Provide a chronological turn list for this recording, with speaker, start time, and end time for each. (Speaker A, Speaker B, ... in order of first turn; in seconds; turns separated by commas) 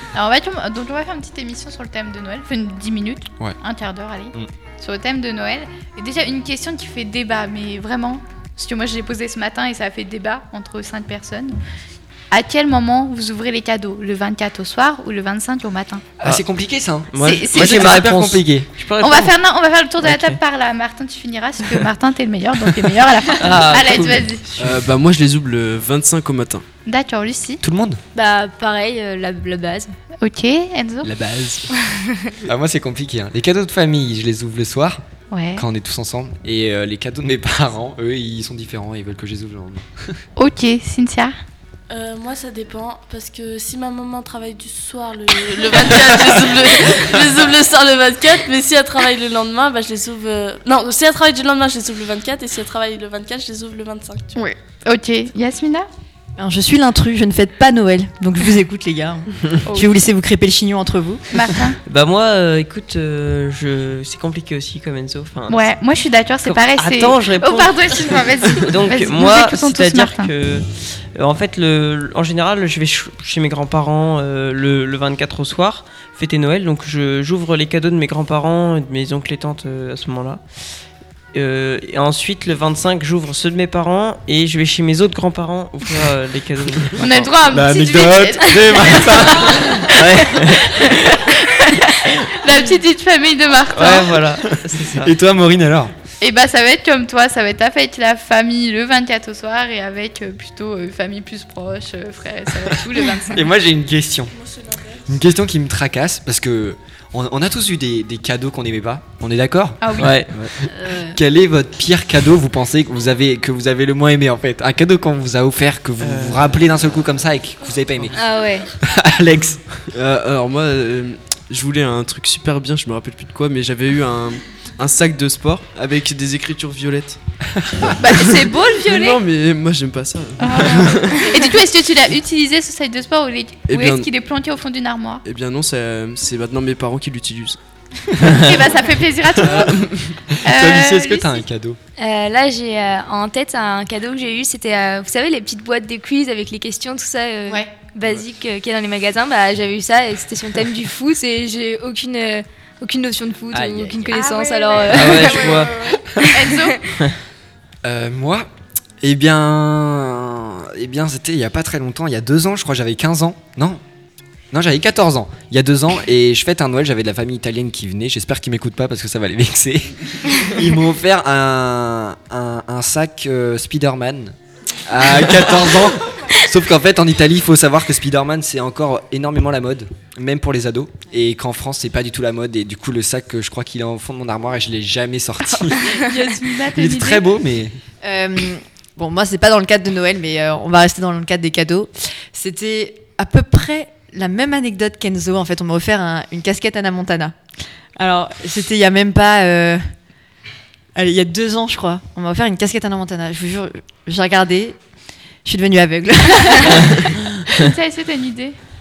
Speaker A: 0.1-11.6, Speaker A: 12.3-16.3, Speaker B: 16.2-18.7, Speaker C: 17.1-19.4, Speaker A: 17.2-18.1, Speaker A: 19.0-24.5, Speaker C: 20.0-20.4, Speaker C: 23.4-24.4, Speaker D: 24.6-26.6, Speaker A: 26.9-27.6, Speaker B: 27.6-28.0, Speaker E: 28.1-29.9, Speaker A: 30.2-31.1, Speaker B: 31.0-31.6, Speaker E: 31.8-32.2, Speaker B: 32.4-35.0, Speaker A: 35.3-35.6, Speaker B: 35.5-40.2, Speaker A: 40.4-41.4, Speaker F: 41.9-54.4, Speaker A: 54.8-55.9, Speaker G: 56.4-61.7, Speaker A: 59.7-60.0, Speaker A: 61.3-61.8, Speaker C: 61.9-65.7, Speaker A: 65.5-70.3, Speaker C: 66.5-80.4, Speaker C: 81.3-87.1, Speaker B: 86.9-90.9, Speaker A: 87.0-94.4, Speaker C: 93.7-95.1, Speaker B: 94.5-95.9, Speaker A: 96.2-103.4, Speaker B: 103.3-104.3, Speaker F: 104.3-105.2, Speaker B: 105.1-119.7, Speaker A: 109.8-110.2, Speaker C: 110.0-110.3, Speaker D: 110.2-110.6, Speaker G: 110.7-111.1, Speaker C: 116.0-116.5, Speaker E: 118.1-118.7, Speaker D: 119.9-127.2, Speaker B: 127.6-127.9, Speaker A: 128.0-129.2, Speaker D: 128.8-131.3, Speaker A: 130.4-135.2, Speaker D: 133.7-134.1, Speaker D: 135.2-137.6, Speaker A: 138.2-141.4, Speaker B: 140.3-141.8, Speaker E: 142.0-156.9, Speaker A: 147.5-147.7, Speaker A: 153.9-156.9, Speaker C: 154.9-155.8, Speaker B: 157.8-158.5, Speaker B: 159.0-163.8, Speaker B: 164.5-186.0, Speaker A: 185.9-187.2, Speaker B: 186.7-187.8, Speaker G: 188.0-197.4, Speaker G: 198.0-200.0, Speaker G: 200.9-204.8, Speaker G: 205.4-207.4, Speaker A: 207.5-208.6